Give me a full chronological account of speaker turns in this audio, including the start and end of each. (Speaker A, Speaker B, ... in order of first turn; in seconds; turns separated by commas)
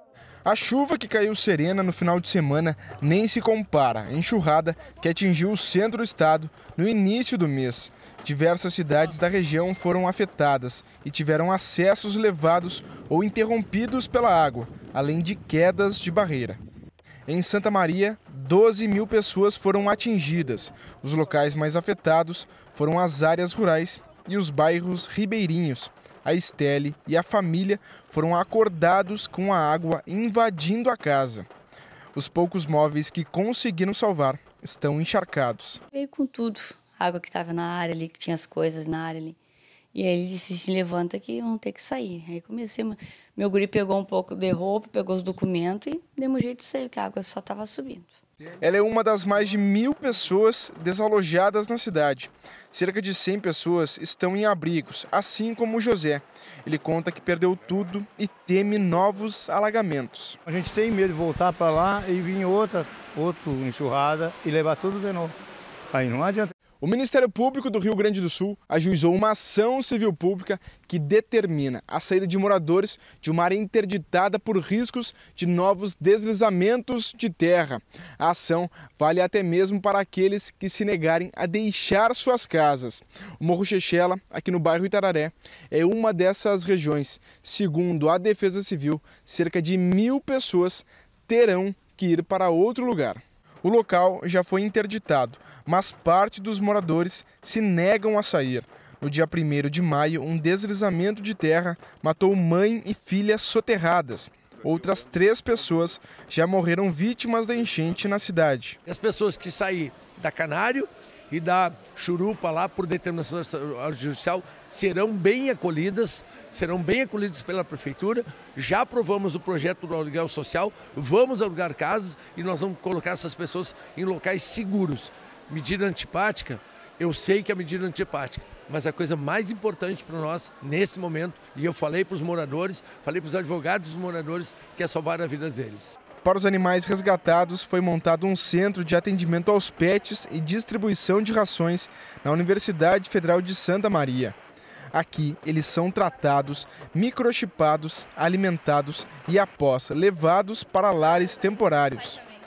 Speaker A: 0.5-16.6, Speaker A: 17.3-31.5, Speaker A: 32.1-35.8, Speaker B: 35.9-39.4, Speaker B: 39.9-48.2, Speaker A: 48.6-60.4, Speaker C: 60.5-62.7, Speaker C: 63.3-65.2, Speaker C: 66.0-66.5, Speaker A: 66.8-108.8, Speaker D: 108.9-136.0, Speaker A: 136.2-144.4, Speaker A: 144.9-152.2